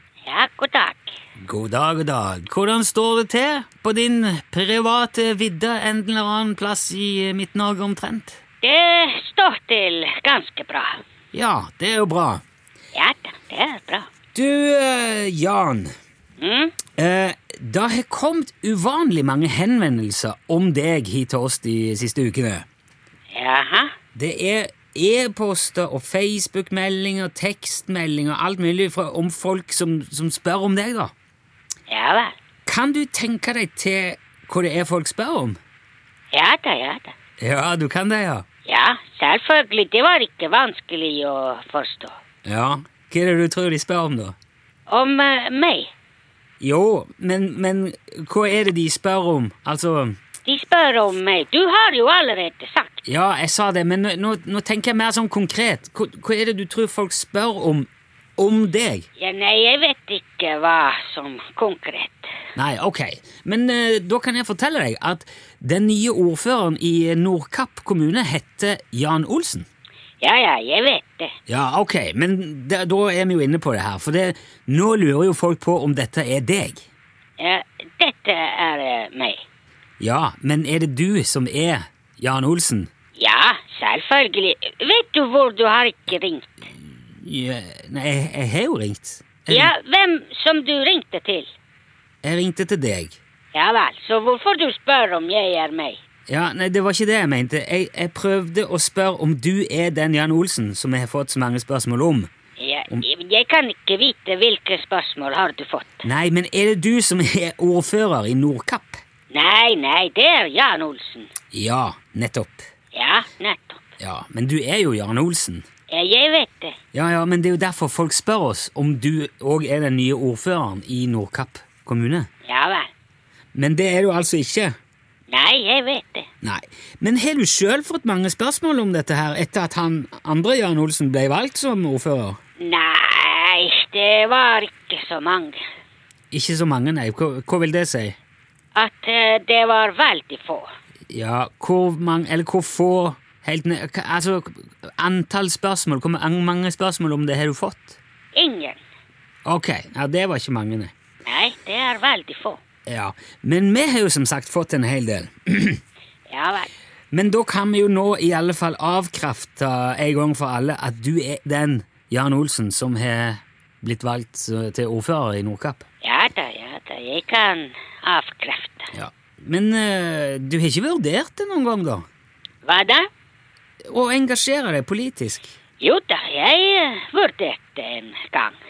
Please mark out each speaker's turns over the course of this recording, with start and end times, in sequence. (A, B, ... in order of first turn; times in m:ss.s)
0:00.3-0:01.2 A
0:01.4-0:08.4 B
0:08.6-0:11.0 A
0:11.3-0:12.4 B
0:13.0-0:14.1 A
0:14.3-0:15.9 B
0:16.4-0:16.7 A
0:17.0-0:22.7 B
0:23.3-0:23.9 A
0:24.2-0:31.1 B
0:31.9-0:32.3 A
0:32.7-0:35.6 B
0:36.3-0:37.1 A
0:37.4-0:38.4 B
0:38.7-0:42.2 A
0:42.5-0:44.4 B
0:44.9-0:45.9 A
0:46.6-0:50.2 B
0:50.4-0:53.0 A
0:53.0-0:59.0 B
0:59.2-1:02.3 A
1:02.6-1:09.7 B
1:10.2-1:11.3 A
1:11.5-1:16.9 B
1:17.4-1:19.4 A
1:20.0-1:22.9 B
1:23.2-1:26.5 A
1:27.1-1:29.7 B
1:29.5-1:31.5 A
1:32.2-1:33.2 B
1:33.5-1:36.0 A
1:36.3-1:42.3 B
1:42.6-1:46.0 A
1:46.0-1:49.0 B
1:49.3-1:51.3 A
1:51.5-1:52.7 B
1:52.9-1:53.8 A
1:54.0-1:55.6 B
1:55.9-1:56.8 A
1:56.9-2:02.3 B
2:02.4-2:02.9 A
2:03.5-2:04.8 B
2:05.3-2:06.3 A
2:06.4-2:12.4 B
2:12.6-2:15.6 A
2:16.3-2:18.2 B
2:18.8-2:20.7 A
2:21.1-2:28.0 B
2:28.4-2:28.8 A
2:29.4-2:30.9 B
2:31.3-2:32.6 A
2:32.9-2:35.8 B
2:36.3-2:36.7 A
2:37.1-2:45.8 B
2:46.0-2:48.9 A
2:48.9-2:52.1 B
2:52.6-2:53.1 A
2:53.9-2:55.5 B
2:55.8-2:58.6 A